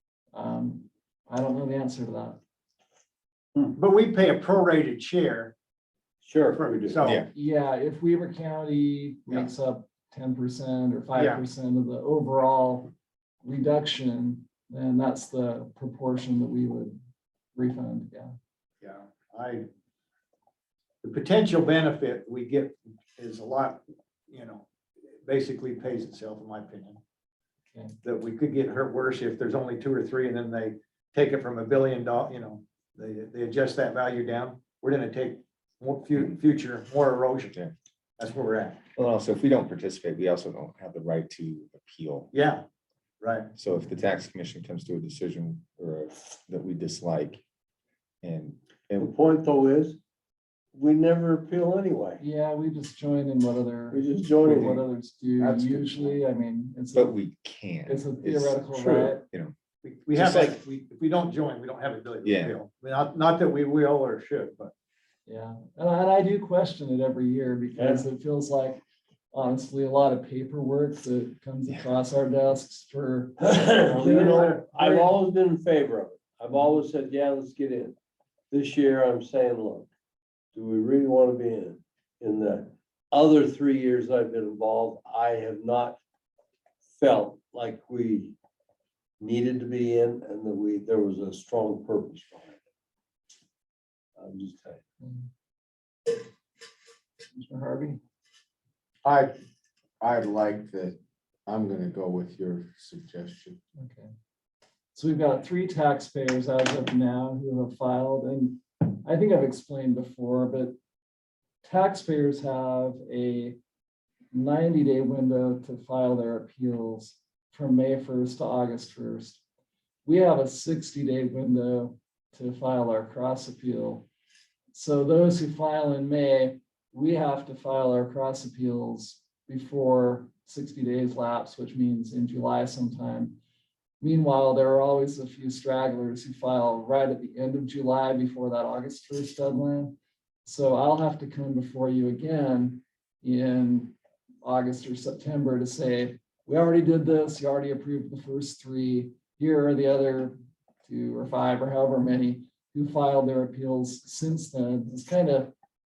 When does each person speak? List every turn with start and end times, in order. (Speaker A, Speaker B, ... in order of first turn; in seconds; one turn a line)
Speaker A: 0.3-2.4
Speaker B: 3.8-5.5
Speaker C: 6.2-7.1
Speaker B: 6.5-7.3
Speaker A: 7.3-12.9
Speaker B: 11.1-11.4
Speaker A: 13.4-17.0
Speaker A: 17.5-18.3
Speaker B: 18.8-19.6
Speaker B: 21.0-24.7
Speaker B: 25.2-27.0
Speaker B: 28.0-37.5
Speaker B: 38.2-38.8
Speaker D: 38.9-42.3
Speaker B: 42.3-42.6
Speaker B: 43.2-43.5
Speaker D: 43.5-47.4
Speaker D: 48.2-49.1
Speaker C: 49.0-50.0
Speaker C: 50.7-52.2
Speaker A: 52.2-57.1
Speaker C: 53.9-54.9
Speaker E: 55.4-56.2
Speaker D: 56.9-58.6
Speaker A: 57.9-59.2
Speaker C: 58.8-59.1
Speaker D: 59.2-59.5
Speaker B: 59.8-64.7
Speaker D: 60.1-60.6
Speaker D: 62.2-62.6
Speaker A: 65.2-68.8
Speaker C: 67.7-68.1
Speaker A: 69.3-75.0
Speaker C: 73.4-78.0
Speaker B: 73.9-75.0
Speaker C: 78.5-79.9
Speaker C: 80.5-86.0
Speaker C: 86.8-88.3
Speaker C: 89.2-92.6
Speaker C: 94.2-94.8
Speaker A: 95.0-95.3
Speaker A: 97.3-98.0
Speaker E: 99.0-99.3
Speaker E: 100.0-103.6
Speaker A: 103.8-104.1
Speaker A: 104.9-110.8
Speaker A: 111.6-113.6
Speaker A: 114.3-119.4
Speaker A: 120.0-124.1
Speaker A: 124.7-133.4
Speaker A: 134.0-155.5